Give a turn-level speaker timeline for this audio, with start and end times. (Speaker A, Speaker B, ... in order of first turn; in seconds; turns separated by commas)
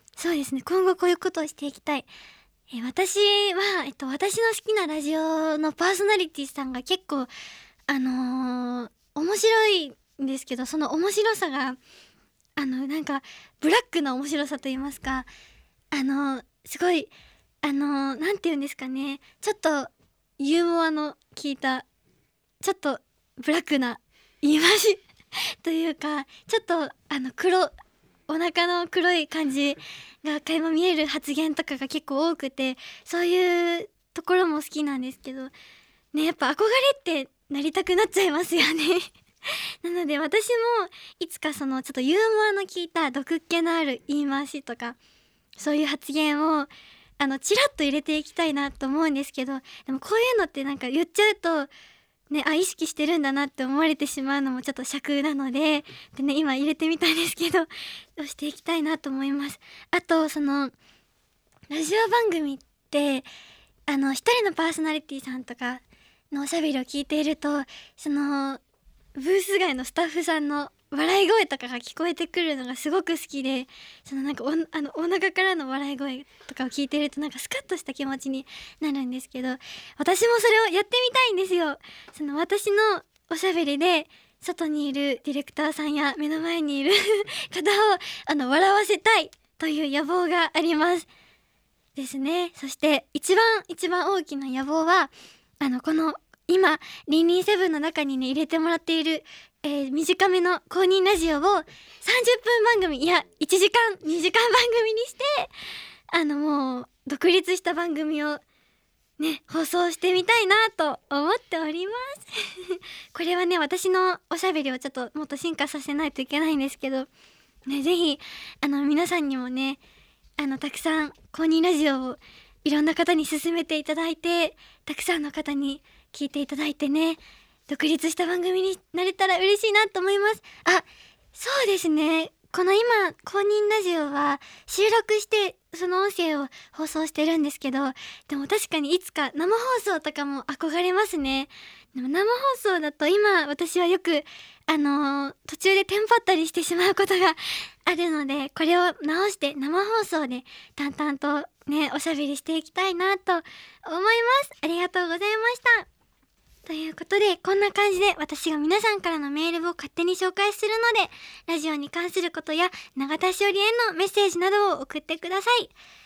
Speaker A: 0.2-2.1, Speaker A: 2.7-7.3, Speaker A: 7.9-11.8, Speaker A: 12.6-15.3, Speaker A: 15.9-17.1, Speaker A: 17.6-21.9, Speaker A: 22.6-25.0, Speaker A: 25.6-27.7, Speaker A: 28.3-35.5, Speaker A: 36.1-39.1, Speaker A: 39.8-45.0, Speaker A: 45.6-51.7, Speaker A: 52.3-60.7, Speaker A: 61.7-63.3, Speaker A: 63.9-68.6, Speaker A: 69.2-91.1, Speaker A: 92.0-105.5, Speaker A: 106.1-108.4, Speaker A: 109.2-117.1, Speaker A: 117.7-119.8, Speaker A: 120.4-130.8, Speaker A: 131.4-155.9, Speaker A: 156.7-165.7